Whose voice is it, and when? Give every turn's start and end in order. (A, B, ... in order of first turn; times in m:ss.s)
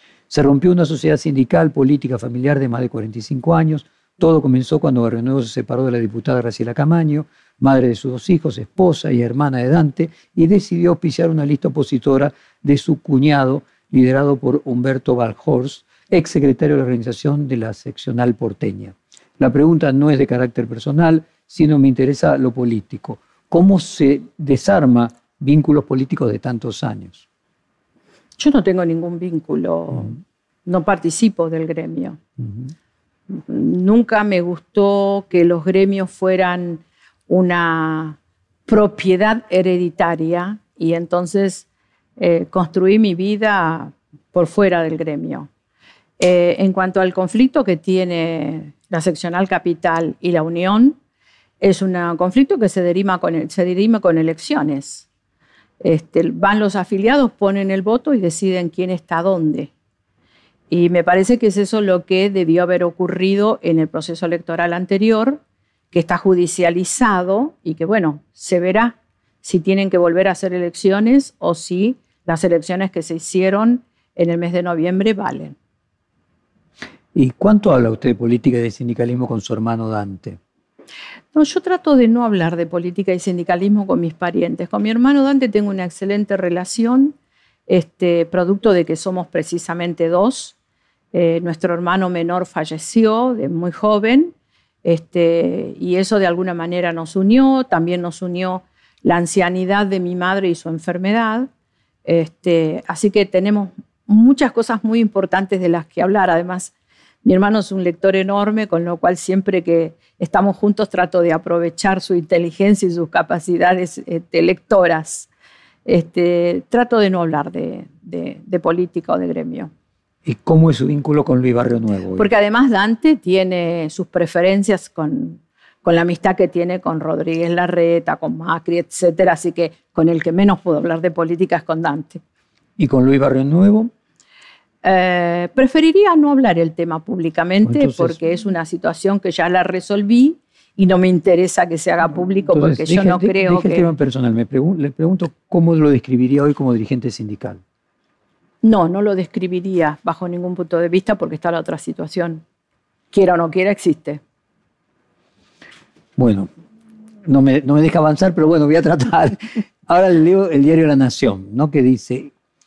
0:00.3-0:27.2 A
0:28.4-0:32.2 B
0:33.3-0:41.6 B
0:42.2-0:45.5 B
0:46.2-0:51.0 B
0:51.6-0:55.1 B
0:55.8-0:59.7 B
1:00.7-1:05.4 B
1:05.9-1:15.6 B
1:17.1-1:20.4 A
1:21.3-1:27.2 B
1:27.7-1:30.6 B
1:31.1-1:41.5 B
1:42.0-1:46.7 B
1:47.2-1:55.3 B
1:55.8-1:59.7 B
2:00.2-2:02.3 A
2:02.1-2:12.2 B
2:12.8-2:13.9 A
2:14.8-2:23.9 B
2:17.6-2:18.2 A
2:22.5-2:27.6 A
2:28.6-2:32.4 B
2:33.1-2:34.2 B
2:36.2-2:36.5 A
2:37.2-2:42.3 A